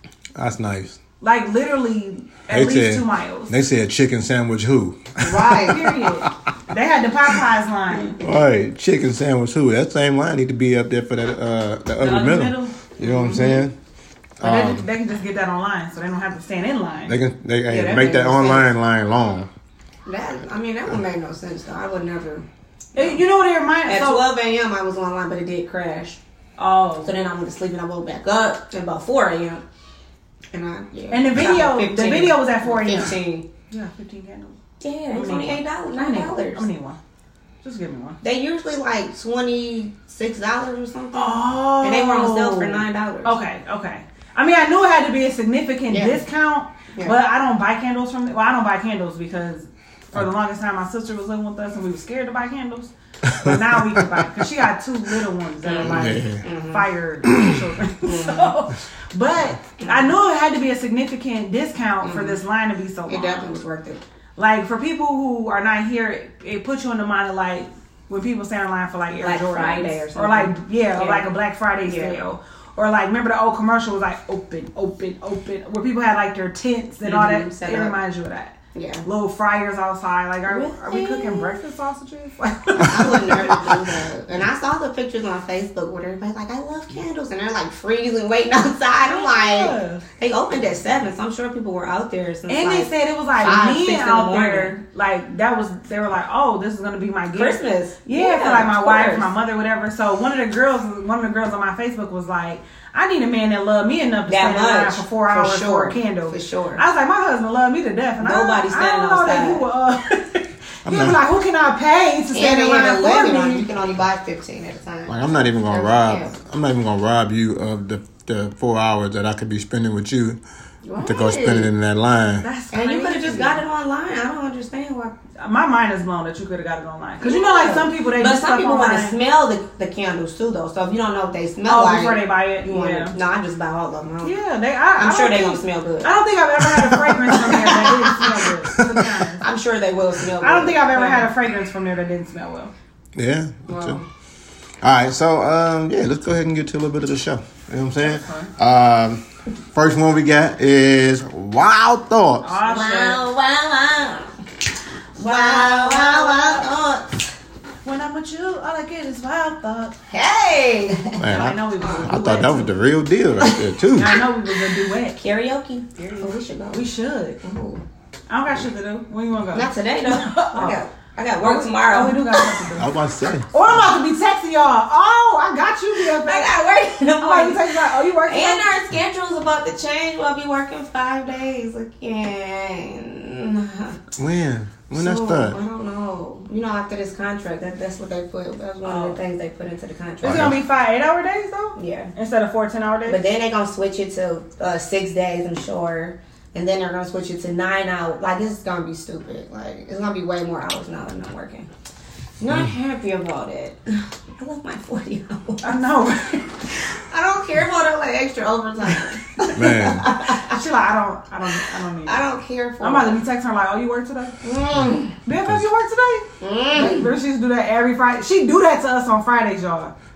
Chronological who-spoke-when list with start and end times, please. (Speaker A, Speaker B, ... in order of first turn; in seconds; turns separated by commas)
Speaker A: 0.3-1.0, Speaker B: 1.2-3.5, Speaker A: 2.5-6.3, Speaker C: 5.2-5.9, Speaker B: 5.2-8.2, Speaker A: 8.2-13.7, Speaker B: 12.0-13.6, Speaker C: 13.0-13.6, Speaker A: 14.4-14.8, Speaker B: 14.4-17.2, Speaker A: 17.1-19.5, Speaker C: 17.7-18.6, Speaker C: 20.1-23.2, Speaker B: 22.9-24.2, Speaker C: 23.8-26.2, Speaker B: 26.6-27.1, Speaker C: 27.0-29.6, Speaker C: 30.5-33.5, Speaker B: 31.1-33.2, Speaker B: 33.7-34.6, Speaker C: 34.8-36.6, Speaker B: 35.1-37.0, Speaker B: 37.6-38.2, Speaker C: 38.2-43.4, Speaker B: 41.1-63.5, Speaker C: 45.9-46.2, Speaker A: 53.3-54.4, Speaker C: 55.6-56.9, Speaker A: 55.8-56.4, Speaker A: 57.2-57.5, Speaker C: 58.0-58.5, Speaker C: 59.8-60.1, Speaker C: 62.0-62.4, Speaker C: 63.1-64.0, Speaker B: 64.4-83.8, Speaker C: 69.2-71.3, Speaker C: 71.8-72.2, Speaker C: 77.0-77.9, Speaker C: 78.7-79.0, Speaker C: 80.5-81.6, Speaker C: 82.8-94.8, Speaker B: 89.0-90.0, Speaker B: 92.5-113.6, Speaker C: 97.3-99.3, Speaker C: 104.3-106.8, Speaker C: 108.2-109.6, Speaker A: 110.8-111.2, Speaker C: 112.3-116.3, Speaker A: 115.1-120.4, Speaker C: 120.8-121.7, Speaker A: 121.0-122.5, Speaker B: 122.4-123.6, Speaker C: 122.7-125.1, Speaker B: 125.4-129.2, Speaker C: 127.2-134.3, Speaker B: 131.7-133.2, Speaker B: 134.2-139.4, Speaker C: 134.9-136.1, Speaker A: 136.8-137.5, Speaker C: 137.6-138.3, Speaker C: 139.4-141.3, Speaker B: 140.4-142.7, Speaker A: 143.2-144.0, Speaker C: 143.7-144.0, Speaker A: 144.8-152.5, Speaker B: 148.0-148.5, Speaker B: 152.4-153.2, Speaker C: 152.6-154.3, Speaker C: 155.2-157.3, Speaker B: 155.2-156.7, Speaker B: 157.8-159.9, Speaker C: 160.1-162.3, Speaker A: 161.2-164.2, Speaker B: 161.2-162.7, Speaker C: 163.4-163.7, Speaker B: 163.9-165.2, Speaker C: 165.1-166.8, Speaker B: 166.0-167.4, Speaker C: 167.4-167.8, Speaker B: 168.3-170.8, Speaker C: 169.5-172.6, Speaker B: 171.4-172.9, Speaker A: 172.8-173.7, Speaker B: 173.5-176.5, Speaker C: 175.9-184.1, Speaker B: 177.2-178.7, Speaker A: 184.2-185.6, Speaker C: 184.9-190.5, Speaker B: 188.8-189.2, Speaker B: 190.2-193.2, Speaker A: 190.2-190.6, Speaker C: 191.8-192.1, Speaker C: 193.1-201.7, Speaker C: 202.4-205.8, Speaker B: 205.6-206.7, Speaker C: 206.7-210.6, Speaker A: 209.5-210.1, Speaker B: 210.2-212.2, Speaker C: 212.0-213.2, Speaker B: 212.8-214.4, Speaker C: 214.4-215.2, Speaker B: 215.2-219.9, Speaker C: 216.4-217.1